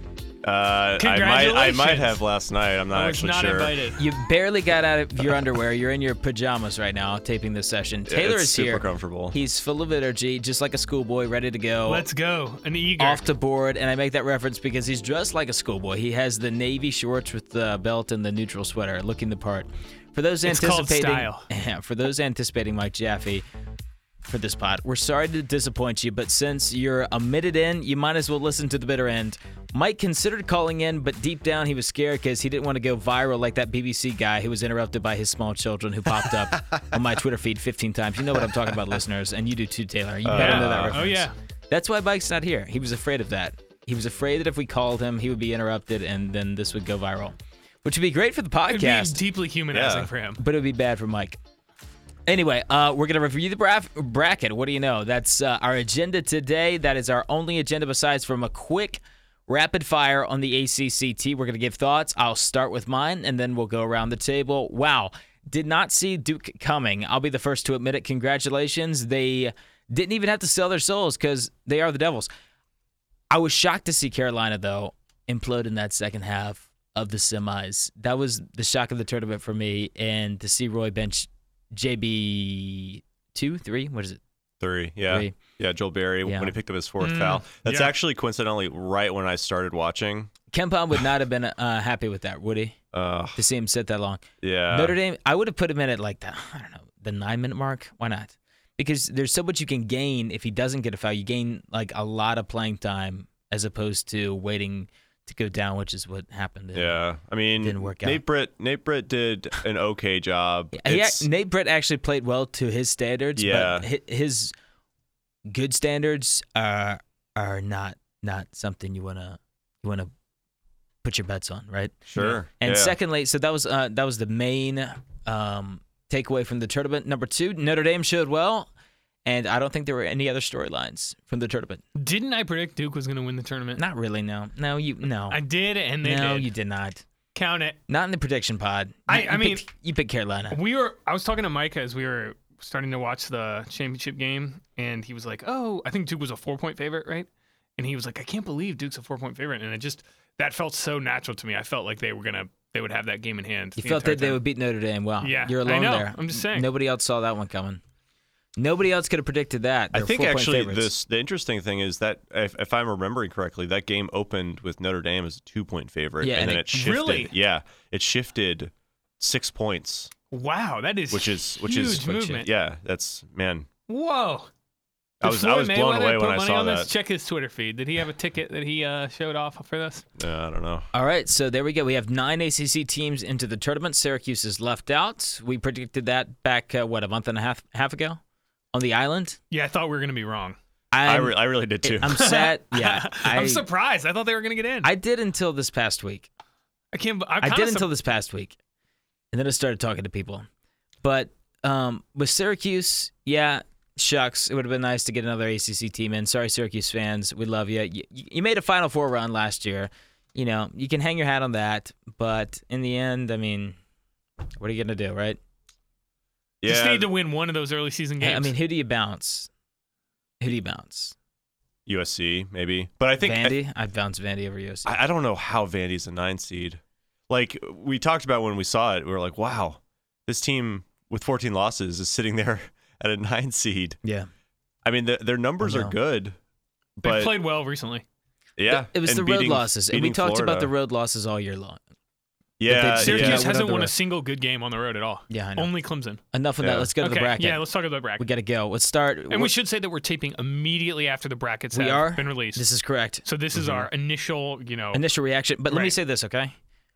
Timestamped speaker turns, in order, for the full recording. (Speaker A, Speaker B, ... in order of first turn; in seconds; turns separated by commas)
Speaker A: 0.4-3.8, Speaker B: 1.0-2.2, Speaker B: 2.9-4.0, Speaker C: 4.0-12.0, Speaker A: 8.1-9.3, Speaker B: 11.8-13.2, Speaker C: 13.0-23.4, Speaker B: 20.4-21.4, Speaker C: 24.2-49.2, Speaker A: 40.2-41.0, Speaker B: 40.3-41.3, Speaker B: 48.7-50.4, Speaker A: 49.7-50.1, Speaker C: 50.4-51.4, Speaker C: 52.2-72.3, Speaker C: 73.3-84.2, Speaker A: 84.6-90.3, Speaker C: 85.1-85.4, Speaker C: 86.2-86.5, Speaker B: 87.0-87.9, Speaker C: 90.5-92.8, Speaker A: 92.9-93.4, Speaker C: 93.4-107.0, Speaker A: 94.4-95.0, Speaker A: 106.7-111.3, Speaker C: 107.6-108.2, Speaker C: 110.7-114.5, Speaker A: 113.4-113.9, Speaker C: 115.5-120.1, Speaker C: 121.0-128.7, Speaker A: 122.1-123.0, Speaker C: 129.2-131.8, Speaker B: 131.9-133.8, Speaker C: 133.8-135.4, Speaker B: 135.3-136.5, Speaker C: 136.0-137.0, Speaker B: 137.3-137.8, Speaker C: 137.9-140.6, Speaker B: 139.1-139.6, Speaker B: 140.5-154.4, Speaker C: 153.8-157.8, Speaker B: 155.2-156.7, Speaker C: 158.6-160.9, Speaker A: 159.9-170.1, Speaker C: 166.2-166.7, Speaker B: 166.7-167.3, Speaker B: 170.3-172.5, Speaker A: 171.1-173.7, Speaker C: 171.9-172.4, Speaker B: 173.9-174.5, Speaker A: 175.2-176.9, Speaker B: 175.2-180.1, Speaker A: 180.2-180.9, Speaker C: 180.9-188.2, Speaker C: 188.7-189.4, Speaker B: 189.5-190.6, Speaker C: 190.9-193.6, Speaker A: 191.1-192.2, Speaker B: 192.0-194.9, Speaker C: 194.8-196.3, Speaker B: 196.9-197.9, Speaker C: 197.4-198.6, Speaker C: 199.3-200.4, Speaker C: 201.0-213.8, Speaker C: 214.6-215.4, Speaker A: 216.6-217.1, Speaker B: 216.7-218.6, Speaker C: 218.2-219.5, Speaker C: 220.4-221.2, Speaker A: 221.9-223.6, Speaker C: 223.2-225.0, Speaker A: 224.9-234.0, Speaker C: 234.0-234.3, Speaker A: 234.8-236.4, Speaker C: 235.6-235.9, Speaker A: 237.0-237.3, Speaker B: 237.0-238.0, Speaker A: 238.6-240.7, Speaker C: 238.7-241.8, Speaker A: 242.6-243.5, Speaker C: 242.7-243.9, Speaker B: 243.0-246.2, Speaker C: 245.3-245.7, Speaker C: 246.3-247.7, Speaker A: 246.6-246.9, Speaker B: 247.0-248.2, Speaker C: 248.2-249.5, Speaker B: 249.3-252.7, Speaker C: 251.7-253.2, Speaker B: 253.2-255.0, Speaker A: 253.6-253.8, Speaker C: 254.9-256.6, Speaker B: 255.7-255.9